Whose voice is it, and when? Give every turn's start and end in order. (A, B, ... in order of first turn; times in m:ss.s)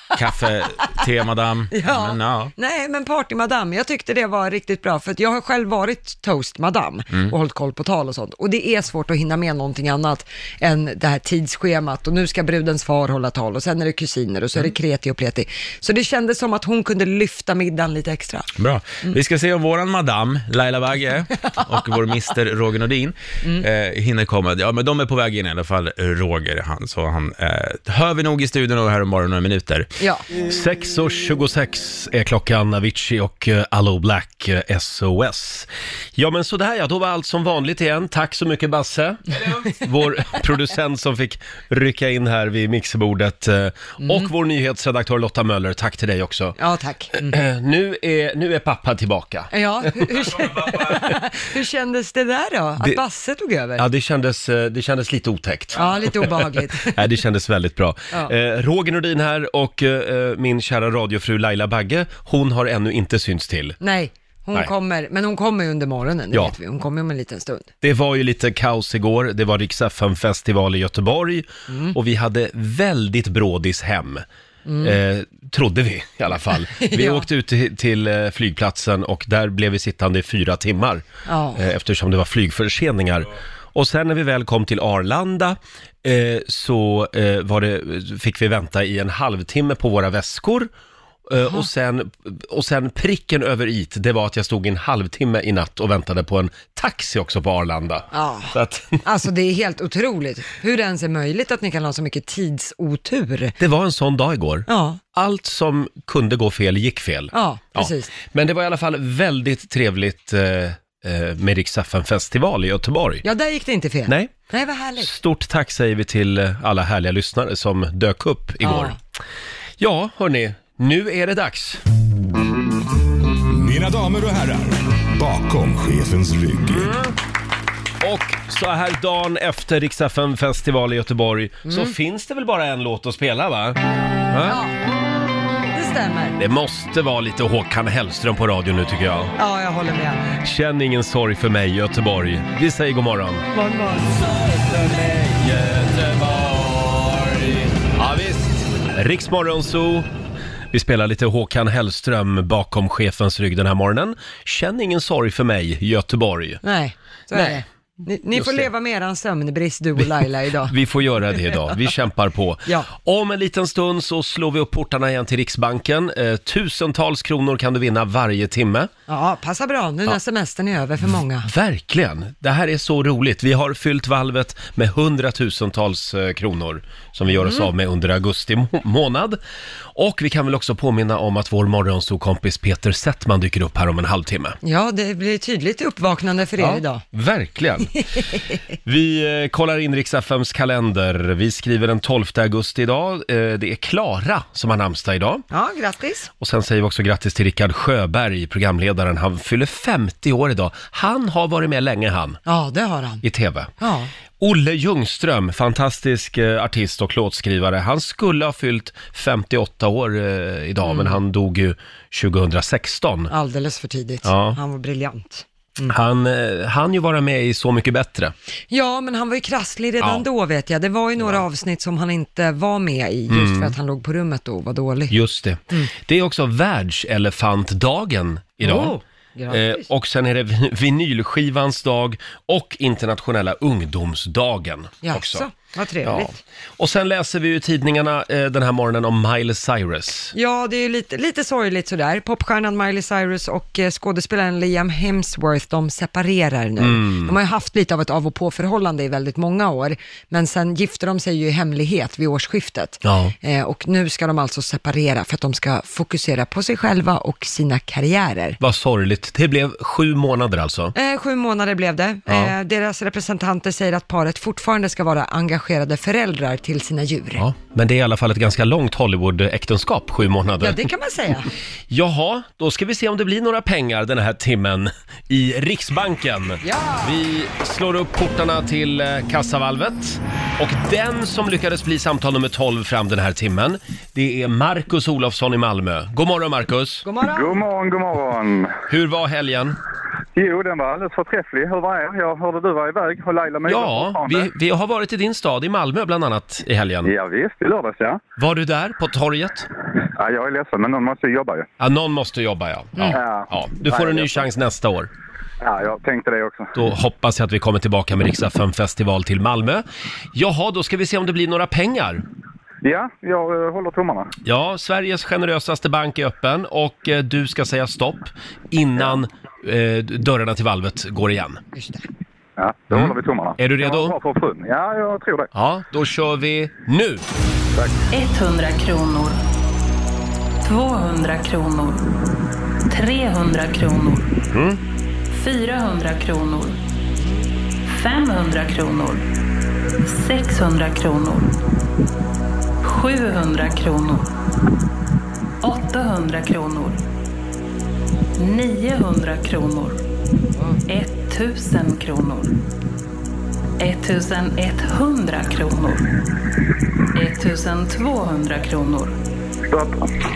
0:00.1-0:02.5 A
0:01.7-0:18.5 B
0:18.6-0:29.9 A
0:30.0-0:30.2 B
0:30.4-0:46.6 C
0:44.0-0:44.3 B
0:46.6-0:47.4 B
0:47.2-0:49.8 C
0:49.5-0:53.8 B
0:53.8-1:03.8 C
0:55.7-0:57.1 B
1:03.8-1:07.7 B
1:07.8-1:14.2 C
1:11.7-1:12.0 B
1:14.6-1:15.0 B
1:14.8-1:21.0 C
1:16.8-1:17.2 B
1:21.3-1:21.6 B
1:21.6-1:30.7 C
1:31.3-1:39.0 C
1:31.4-1:31.7 B
1:38.1-1:43.5 B
1:43.6-1:53.2 C
1:44.7-1:45.0 B
1:47.3-1:48.1 B
1:53.2-1:55.1 B
1:54.1-1:54.3 C
1:55.0-1:59.0 C
1:58.6-1:58.9 B
1:59.8-2:01.8 C
2:03.5-2:06.9 D
2:06.6-2:07.1 C
2:08.0-2:13.8 C
2:11.6-2:11.9 B
2:14.3-2:14.6 C
2:14.4-2:14.8 B
2:15.7-2:16.4 B
2:16.4-2:19.3 C
2:19.4-2:20.3 B
2:20.4-2:23.4 C
2:23.5-2:24.2 B
2:24.4-2:30.1 C
2:30.7-2:36.6 C
2:36.6-2:40.7 B
2:37.3-2:37.6 C
2:38.3-2:38.7 C
2:40.7-2:48.9 C
2:49.1-2:51.5 B
2:51.4-2:59.4 C
2:57.3-2:57.7 B
2:59.9-3:04.6 C
3:04.6-3:07.0 B
3:06.6-3:08.0 C
3:08.8-3:15.4 C
3:15.5-3:16.3 B
3:16.4-3:22.4 C
3:22.4-3:23.2 B
3:23.2-3:23.7 C
3:23.8-3:24.1 B
3:24.4-3:33.3 C
3:30.8-3:31.2 B
3:33.3-3:36.0 B
3:34.2-3:34.6 C
3:35.9-3:38.3 C
3:38.7-3:45.1 B
3:43.3-3:43.8 C
3:45.1-3:49.0 C
3:48.6-3:49.8 B
3:49.5-3:55.4 C
3:55.0-3:56.3 B
3:56.0-4:00.3 C
4:00.3-4:18.6 B
4:06.8-4:07.3 C
4:13.0-4:13.3 C
4:18.6-4:20.9 C
4:20.9-4:27.4 B
4:22.3-4:22.5 C
4:27.4-4:30.9 C
4:30.6-4:31.5 B
4:31.9-4:47.1 C
4:36.6-4:37.2 B
4:47.0-4:47.6 B
4:47.2-4:48.7 E
4:48.9-4:49.8 C
4:50.3-4:54.5 E
4:53.6-4:57.1 C
4:57.0-4:58.2 E
4:58.4-4:59.7 C
5:00.2-5:01.7 E
5:01.8-5:05.1 C
5:03.1-5:04.5 E
5:05.6-5:06.7 E
5:06.7-5:12.2 C
5:12.8-5:14.3 E
5:14.4-5:21.6 C
5:21.7-5:22.0 B
5:22.6-5:25.5 E
5:22.9-5:24.1 C
5:25.5-5:27.2 C
5:28.1-5:29.4 F
5:30.6-5:32.1 F
5:32.9-5:34.3 F
5:34.5-5:34.8 C
5:35.3-5:36.8 F
5:37.8-5:39.2 F
5:40.0-5:41.5 F
5:42.8-5:44.3 F
5:45.6-5:47.0 F
5:48.4-5:50.0 F
5:50.9-5:52.6 F
5:53.8-5:56.0 F
5:57.1-5:59.2 F
5:59.7-6:00.1 E